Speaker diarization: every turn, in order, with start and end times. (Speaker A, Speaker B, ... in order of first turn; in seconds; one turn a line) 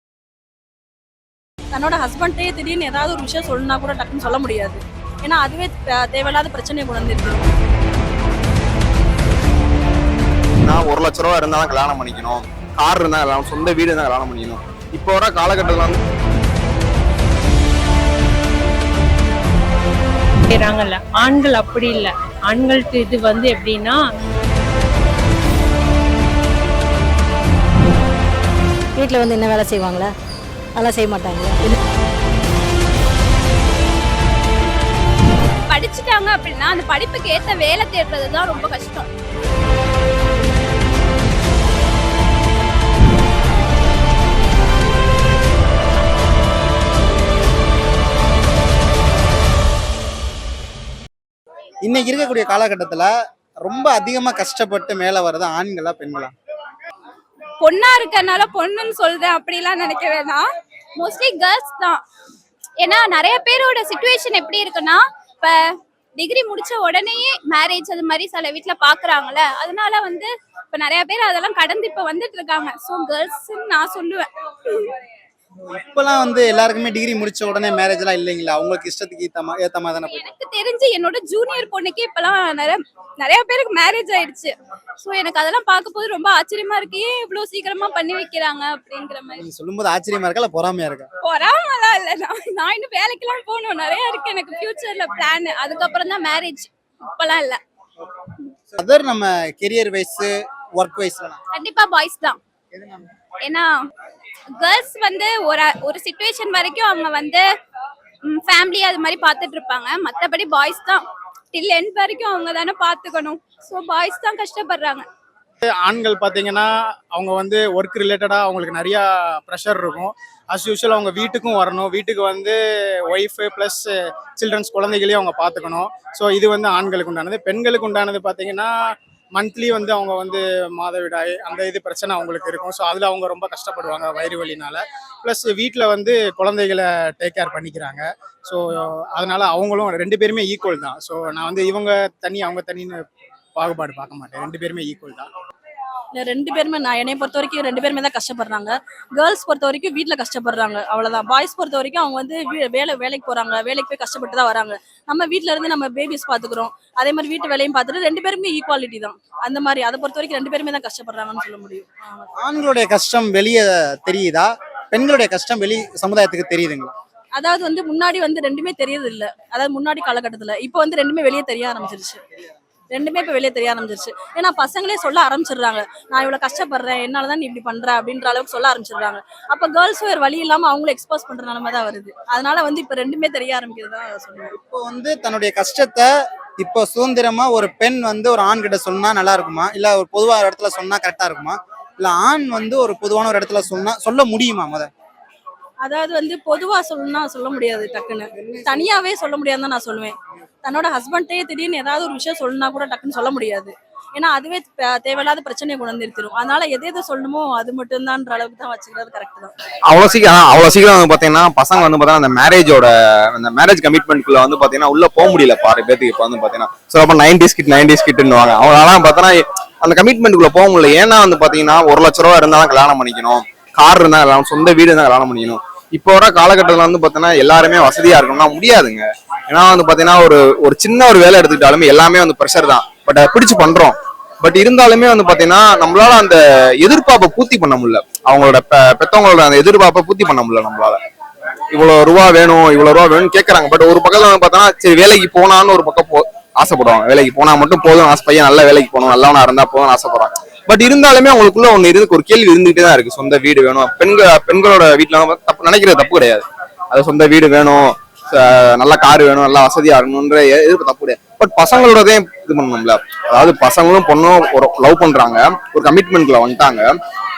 Speaker A: 1.7-7.5
Speaker B: 10.6-16.0
Speaker C: 20.5-24.0
Speaker D: 29.0-30.1
Speaker D: 30.8-31.7
Speaker E: 35.7-39.1
Speaker F: 51.8-53.1
Speaker F: 53.7-56.3
Speaker E: 57.6-60.5
Speaker E: 61.0-62.0
Speaker E: 62.8-75.0
Speaker F: 75.7-80.2
Speaker E: 80.1-89.4
Speaker F: 89.4-91.1
Speaker E: 91.2-97.6
Speaker F: 98.7-101.4
Speaker E: 101.5-102.4
Speaker E: 103.4-103.7
Speaker E: 104.6-107.5
Speaker E: 108.3-115.1
Speaker G: 115.6-128.7
Speaker G: 129.3-143.0
Speaker G: 143.6-145.3
Speaker A: 146.2-162.3
Speaker F: 162.4-166.9
Speaker A: 167.3-172.2
Speaker A: 172.9-184.5
Speaker F: 184.5-186.1
Speaker F: 186.6-194.9
Speaker A: 195.8-209.5
Speaker B: 209.9-241.0
Speaker B: 241.7-266.9